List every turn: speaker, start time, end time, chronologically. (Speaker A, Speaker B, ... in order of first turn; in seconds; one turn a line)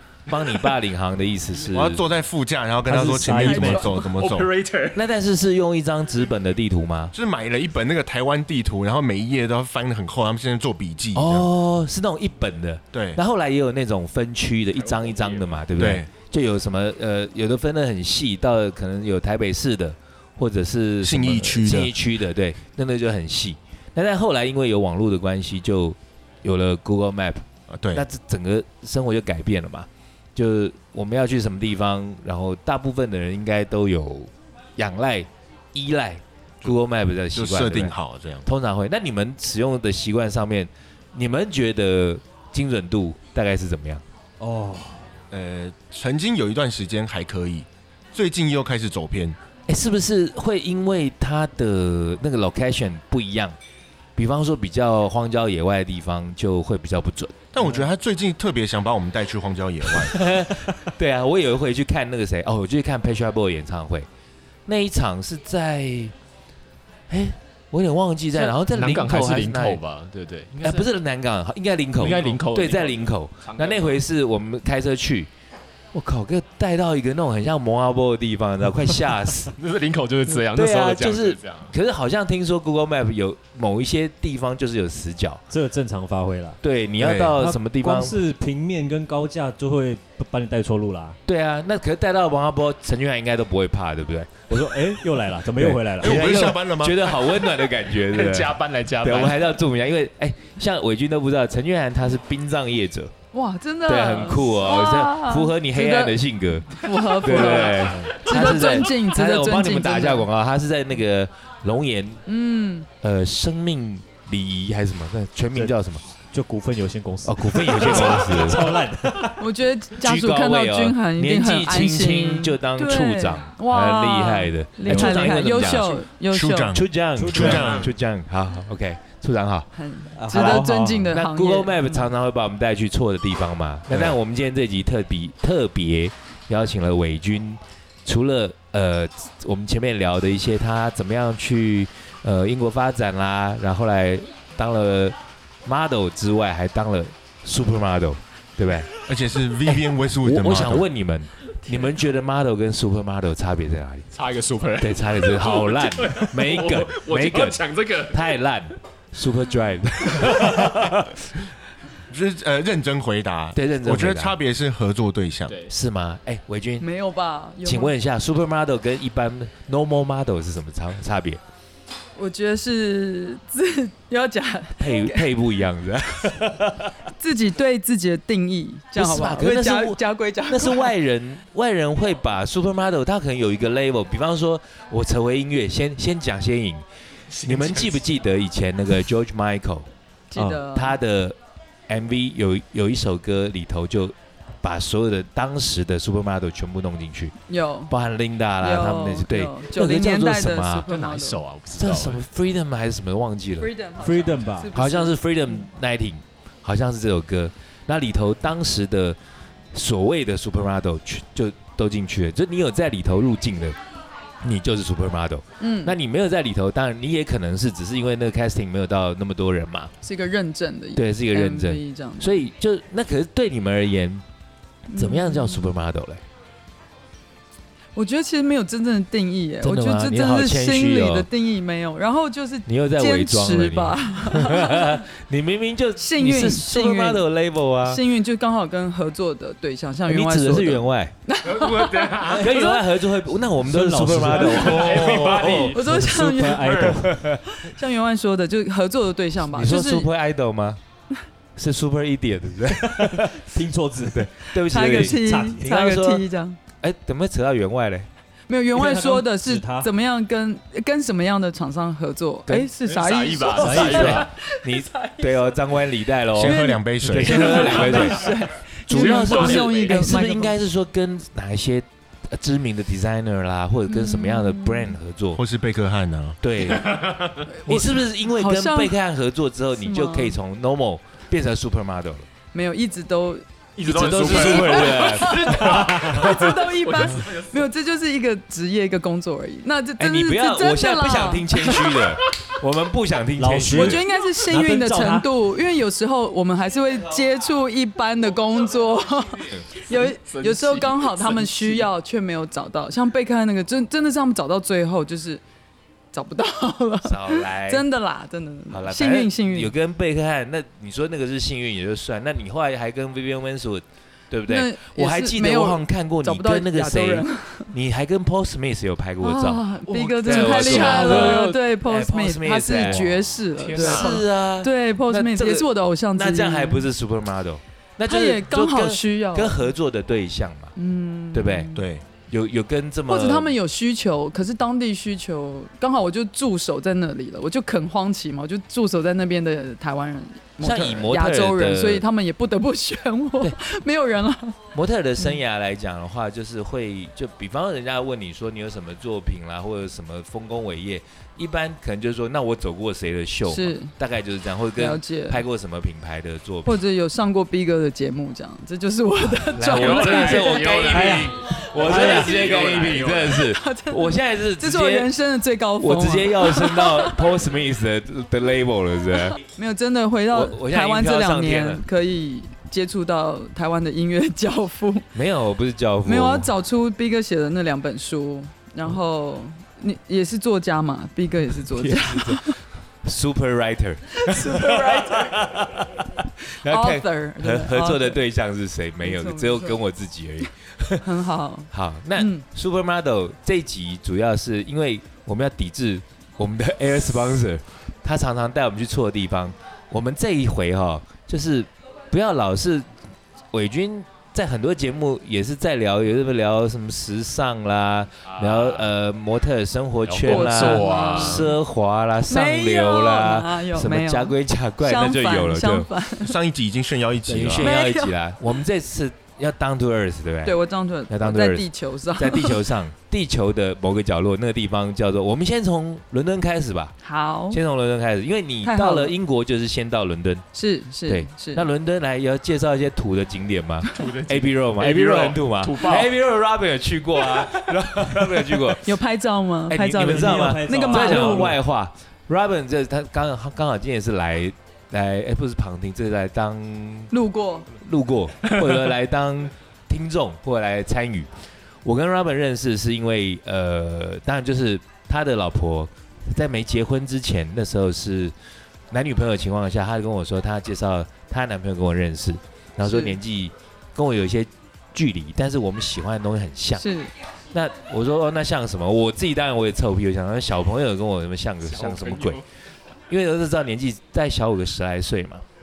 Speaker A: 0.3-2.0
Speaker B: 1.7-4.5
Speaker C: 2.9-4.0
Speaker D: 3.3-4.1
Speaker E: 4.1-5.0
Speaker A: 4.9-7.1
Speaker B: 7.1-11.5
Speaker A: 11.2-37.9
Speaker B: 12.9-13.2
Speaker E: 14.8-15.5
Speaker B: 15.8-16.1
Speaker B: 21.0-21.9
Speaker B: 27.7-28.0
Speaker B: 37.4-38.5
Speaker A: 38.5-44.0
Speaker C: 44.4-45.1
Speaker B: 45.3-49.4
Speaker A: 49.7-53.5
Speaker A: 54.2-57.4
Speaker B: 57.5-60.2
Speaker A: 60.1-64.1
Speaker A: 64.7-66.1
Speaker A: 67.1-69.8
Speaker E: 68.3-70.9
Speaker A: 70.6-75.3
Speaker E: 72.0-74.0
Speaker A: 75.9-79.5
Speaker E: 79.5-81.7
Speaker A: 80.3-85.4
Speaker C: 85.5-86.6
Speaker A: 86.6-88.2
Speaker B: 87.0-87.4
Speaker C: 87.4-91.2
Speaker A: 91.3-94.8
Speaker C: 94.5-96.4
Speaker A: 95.5-103.1
Speaker B: 96.0-97.2
Speaker E: 98.0-99.5
Speaker D: 103.3-106.2
Speaker A: 103.9-112.2
Speaker D: 106.7-110.3
Speaker C: 107.8-108.2
Speaker D: 112.3-112.9
Speaker A: 113.0-116.0
Speaker C: 116.3-119.5
Speaker A: 117.2-118.8
Speaker D: 119.4-126.7
Speaker A: 120.0-126.0
Speaker C: 124.9-125.5
Speaker B: 126.3-127.9
Speaker A: 126.7-129.7
Speaker C: 127.2-127.8
Speaker D: 129.8-132.1
Speaker C: 130.1-131.1
Speaker A: 130.3-145.2
Speaker B: 133.9-134.2
Speaker A: 145.7-149.0
Speaker B: 149.0-150.9
Speaker A: 150.2-154.1
Speaker E: 154.1-158.3
Speaker A: 154.8-161.2
Speaker B: 162.1-165.6
Speaker A: 163.5-164.4
Speaker E: 165.5-165.7
Speaker A: 165.7-166.8
Speaker D: 166.8-167.9
Speaker A: 167.6-171.4
Speaker D: 172.2-175.3
Speaker A: 174.8-176.9
Speaker D: 177.2-180.9
Speaker A: 179.0-186.8
Speaker E: 187.3-188.0
Speaker A: 187.3-189.9
Speaker D: 190.3-191.0
Speaker C: 190.3-190.6
Speaker A: 190.7-191.4
Speaker A: 191.9-197.3
Speaker D: 197.5-197.9
Speaker A: 197.9-200.9
Speaker D: 198.6-201.4
Speaker E: 200.9-202.2
Speaker A: 201.7-203.7
Speaker D: 203.6-205.2
Speaker C: 204.0-204.7
Speaker A: 204.8-209.2
Speaker A: 209.7-213.8
Speaker A: 214.4-219.9
Speaker D: 215.6-215.9
Speaker D: 220.0-222.3
Speaker A: 221.0-224.2
Speaker D: 224.9-225.7
Speaker A: 224.9-226.2
Speaker D: 228.0-235.0
Speaker A: 229.6-231.3
Speaker A: 232.7-238.0
Speaker D: 236.0-237.2
Speaker D: 237.9-242.8
Speaker A: 240.1-241.2
Speaker E: 241.5-242.5
Speaker A: 242.3-245.8
Speaker C: 243.6-247.2
Speaker E: 244.4-245.8
Speaker D: 245.7-250.1
Speaker A: 246.9-247.4
Speaker A: 249.5-250.8
Speaker A: 251.6-253.5
Speaker C: 252.8-255.7
Speaker A: 254.1-256.2
Speaker D: 254.6-256.6
Speaker A: 256.8-258.1
Speaker D: 258.5-265.6
Speaker C: 258.7-259.9
Speaker E: 262.8-264.3
Speaker C: 263.5-264.3
Speaker A: 263.8-268.3
Speaker B: 266.3-268.0
Speaker D: 266.4-270.6
Speaker E: 267.6-268.3
Speaker A: 268.9-275.4
Speaker E: 268.9-270.0
Speaker D: 273.9-274.9
Speaker B: 275.4-276.4
Speaker A: 276.4-277.1
Speaker E: 276.7-277.4
Speaker D: 277.5-279.0
Speaker A: 277.6-282.3
Speaker D: 279.8-280.4
Speaker D: 282.5-283.4
Speaker E: 283.8-287.7
Speaker A: 283.8-286.5
Speaker D: 284.0-292.0
Speaker C: 285.8-286.2
Speaker A: 290.0-294.1
Speaker C: 293.4-295.3
Speaker D: 293.7-305.4
Speaker E: 300.1-301.9
Speaker D: 306.1-309.7
Speaker A: 307.0-307.9
Speaker A: 308.7-319.7
Speaker D: 314.5-317.7
Speaker D: 319.2-326.9
Speaker E: 319.9-321.6
Speaker A: 320.2-323.1
Speaker E: 323.6-324.2
Speaker A: 323.7-330.7
Speaker D: 328.1-329.7
Speaker D: 330.8-331.8
Speaker A: 331.3-333.5
Speaker B: 331.8-332.1
Speaker D: 333.1-344.6
Speaker A: 340.6-342.0
Speaker A: 344.7-356.8
Speaker D: 353.5-353.9
Speaker D: 354.8-355.4
Speaker D: 356.7-360.9
Speaker A: 359.6-365.1
Speaker E: 359.6-363.4
Speaker C: 360.9-362.2
Speaker D: 361.9-362.7
Speaker D: 363.3-367.3
Speaker A: 365.8-369.4
Speaker D: 369.4-375.1
Speaker A: 370.3-371.8
Speaker A: 375.1-376.5
Speaker D: 376.1-382.6
Speaker A: 381.7-391.1
Speaker D: 384.1-385.4
Speaker D: 386.7-388.2
Speaker D: 389.0-389.8
Speaker D: 391.0-392.4
Speaker A: 391.7-402.9
Speaker A: 403.5-415.9
Speaker E: 408.3-408.9
Speaker E: 410.1-411.5
Speaker D: 410.2-411.5
Speaker D: 412.3-416.3
Speaker B: 416.2-417.7
Speaker A: 417.3-420.6
Speaker D: 417.6-418.1
Speaker D: 420.4-422.6
Speaker A: 421.1-426.9
Speaker D: 427.0-427.6
Speaker A: 427.5-430.4
Speaker D: 428.6-429.1
Speaker D: 430.5-431.7
Speaker A: 431.1-438.9
Speaker E: 433.9-436.1
Speaker E: 437.4-438.3
Speaker D: 438.8-441.6
Speaker A: 439.7-447.1
Speaker C: 440.0-441.6
Speaker D: 447.1-447.7
Speaker A: 447.8-451.3
Speaker A: 451.9-458.3
Speaker A: 458.9-466.9
Speaker D: 462.8-463.2
Speaker D: 466.8-467.1
Speaker A: 467.5-472.4
Speaker E: 471.8-472.4
Speaker A: 473.1-475.4